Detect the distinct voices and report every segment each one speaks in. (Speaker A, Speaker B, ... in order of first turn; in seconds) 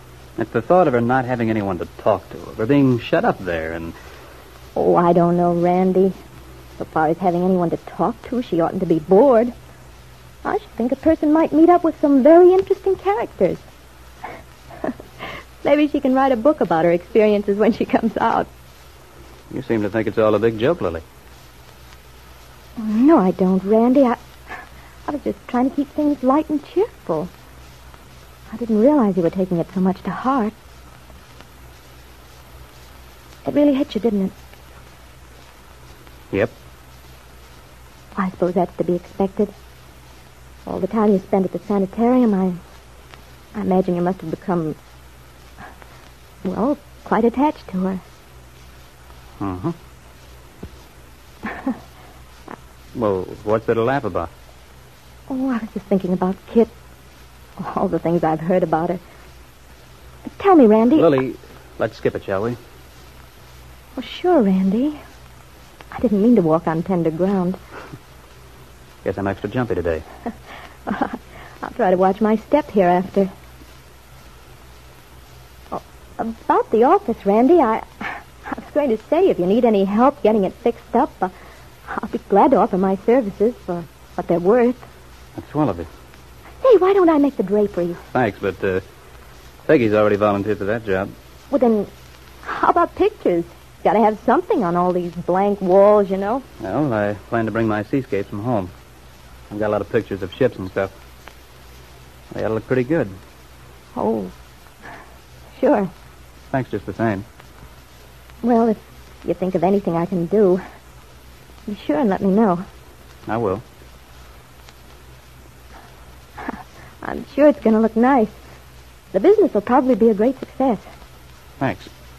Speaker A: 0.4-4.0, 19.5-21.0, 49.4-49.8, 52.9-54.3, 61.0-62.6, 69.0-70.0, 85.4-85.9, 88.1-88.8, 89.7-91.1, 96.6-98.7, 99.5-100.9, 102.3-103.1, 106.5-107.3, 113.3-113.6, 121.6-121.9
Speaker B: 4.8-6.2, 6.8-9.5, 10.4-13.6, 15.6-18.5, 22.8-24.2, 25.1-27.3, 28.5-30.6, 33.4-34.3, 38.1-39.5, 40.7-42.6, 43.5-44.8, 46.4-48.0, 55.3-56.7, 57.6-59.0, 60.3-61.1, 64.0-65.0, 65.9-67.6, 70.9-73.3, 75.7-81.3, 81.9-84.8, 86.6-88.0, 91.5-91.9, 92.4-96.5, 104.0-104.3, 105.5-105.9, 108.4-110.6, 111.7-112.6, 117.0-118.4, 119.1-120.9